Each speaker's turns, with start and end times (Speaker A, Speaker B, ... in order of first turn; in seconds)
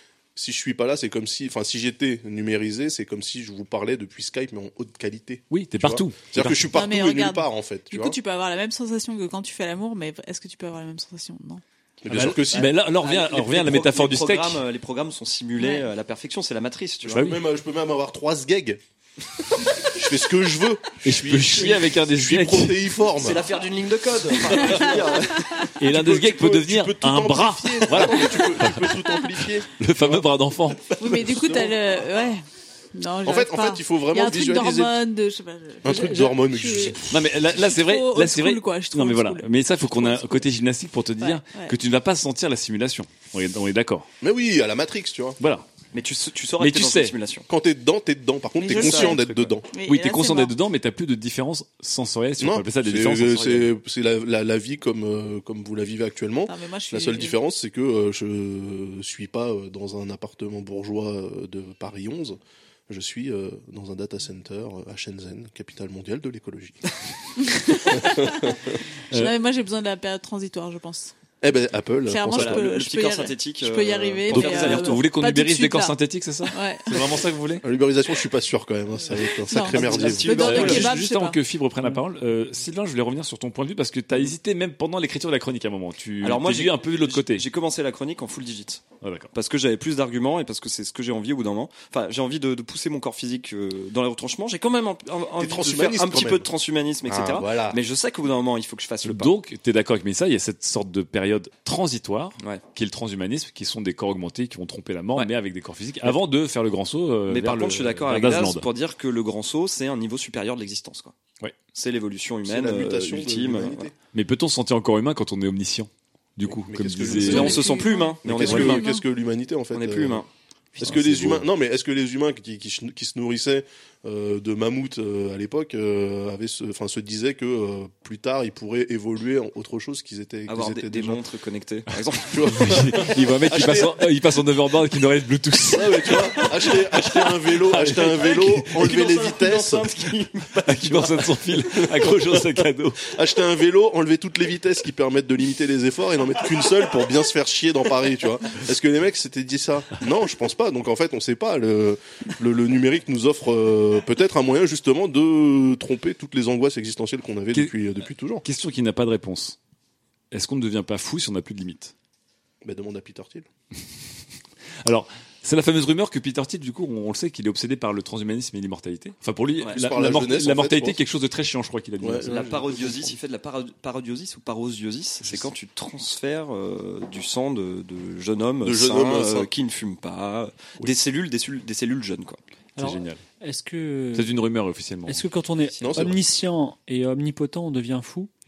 Speaker A: 0.4-8.2, 12.0-12.7, 17.0-18.8, 19.9-23.4, 24.5-24.9, 25.8-30.2, 31.1-31.8, 33.2-35.0, 35.8-37.1, 44.2-45.4, 47.5-49.7, 52.4-62.4, 62.9-66.8, 67.9-68.8, 71.4-72.7, 77.6-80.8, 95.4-96.5, 97.1-97.8, 112.5-113.9, 116.5-120.3, 120.8-131.2, 132.3-134.0, 135.7-139.8, 143.0-158.4, 162.6-163.5, 169.7-171.0, 172.0-173.1, 178.6-179.5, 185.8-186.2
Speaker B: 5.5-6.8, 12.1-14.6, 17.1-17.4, 21.0-22.9, 25.8-29.0, 29.8-31.3, 37.1-44.1, 45.4-45.7, 46.6-47.1, 48.8-53.7, 74.3-77.7, 80.1-87.5, 89.0-89.3, 99.0-108.7, 114.1-117.6, 118.3-118.7, 120.8-121.5, 132.5-138.8, 140.7-143.0, 158.4-159.6, 160.3-161.9, 164.8-172.4, 175.2-175.5, 182.8-183.2, 184.1-185.3
Speaker C: 6.7-11.6, 15.6-15.9, 31.0-37.0, 37.5-40.5, 41.2-41.8, 48.7-49.2, 49.7-50.5, 56.5-57.4, 67.6-68.5, 69.1-71.1, 72.1-77.0, 79.4-81.4, 117.3-119.0
Speaker D: 12.5-17.2, 23.2-25.7, 45.9-47.5, 48.7-49.0, 72.3-75.0, 79.7-80.9, 86.2-99.3, 107.3-111.1, 111.7-113.9, 117.1-118.8, 119.7-120.3, 130.5-132.4, 138.1-141.2, 169.6-169.9, 172.3-182.4
Speaker E: 182.8-184.3, 185.1-188.3